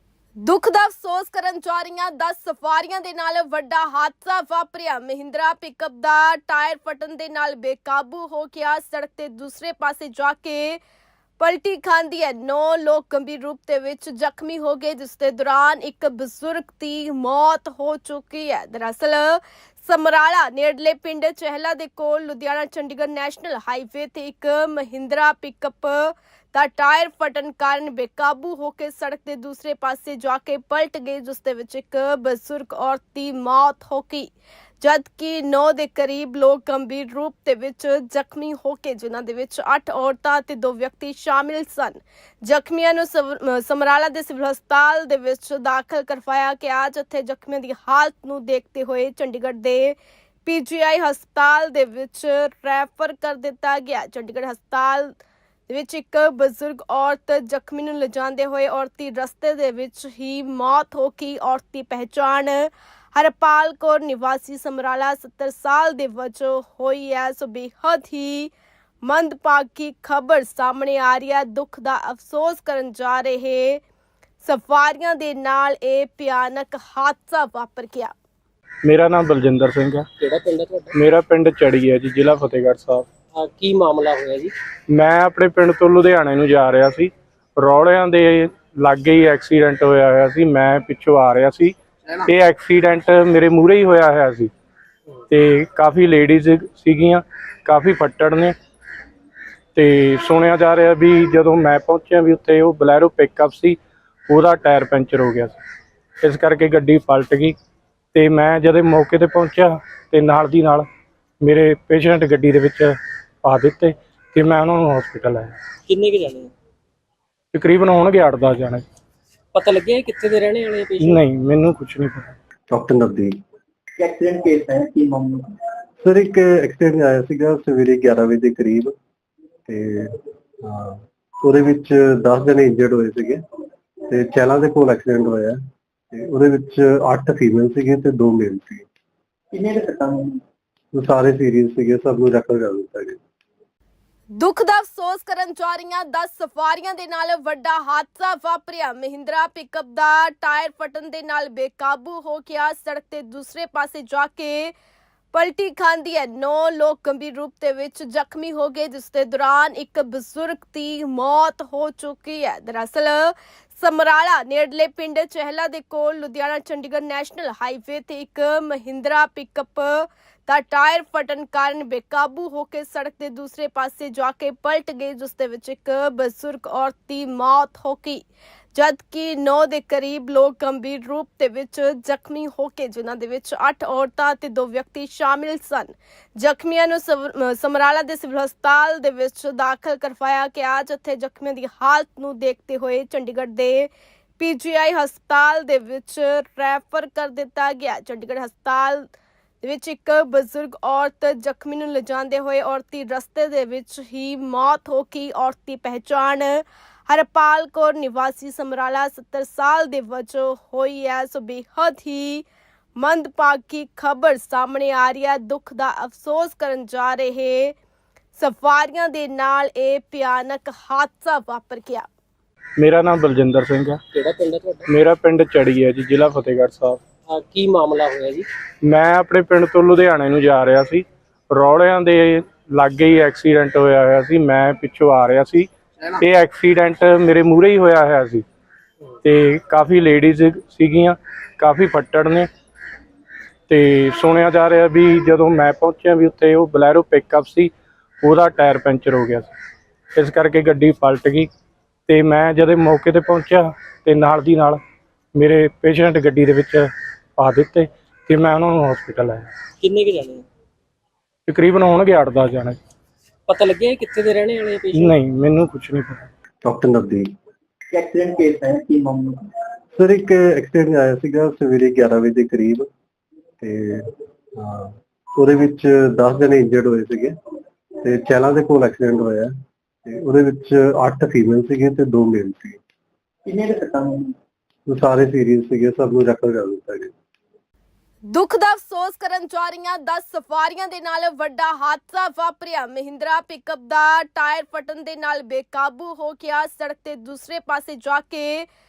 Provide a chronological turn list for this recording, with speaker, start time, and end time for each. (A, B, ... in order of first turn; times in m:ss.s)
0:00.4-0:10.8 A
0:11.4-0:55.1 A
0:55.7-1:08.5 A
1:09.0-1:13.8 A
1:14.4-1:18.1 A
1:18.8-1:20.1 B
1:20.2-1:20.9 C
1:20.9-1:23.1 B
1:23.3-1:24.5 C
1:24.9-1:34.5 B
1:35.3-1:38.6 B
1:39.8-1:43.8 B
1:44.3-1:45.6 B
1:46.2-1:47.6 B
1:48.1-1:50.9 B
1:51.4-1:55.6 B
1:55.9-1:56.5 C
1:57.5-1:58.8 B
1:59.5-2:01.2 C
2:01.0-2:02.4 B
2:02.7-2:03.4 D
2:04.0-2:05.5 E
2:06.0-2:08.9 D
2:09.7-2:13.4 D
2:14.1-2:15.6 D
2:16.1-2:18.9 D
2:19.5-2:20.4 E
2:20.9-2:23.2 D
2:24.4-2:34.7 A
2:35.3-2:58.2 A
2:58.8-3:19.1 A
3:19.6-3:32.4 A
3:33.0-3:37.8 A
3:38.4-3:42.1 A
3:42.8-3:44.0 B
3:44.1-3:44.9 C
3:44.9-3:47.0 B
3:47.3-3:48.5 C
3:48.8-3:58.4 B
3:59.2-4:02.5 B
4:03.7-4:09.5 B
4:10.2-4:11.5 B
4:12.1-4:14.8 B
4:15.4-4:19.5 B
4:19.8-4:20.4 C
4:21.5-4:22.8 B
4:23.5-4:25.1 C
4:24.9-4:26.3 B
4:26.6-4:27.3 D
4:27.9-4:29.5 E
4:30.0-4:32.9 D
4:33.6-4:37.3 D
4:38.0-4:39.5 D
4:40.0-4:42.8 D
4:43.5-4:44.3 E
4:44.9-4:47.1 D
4:48.3-4:58.7 A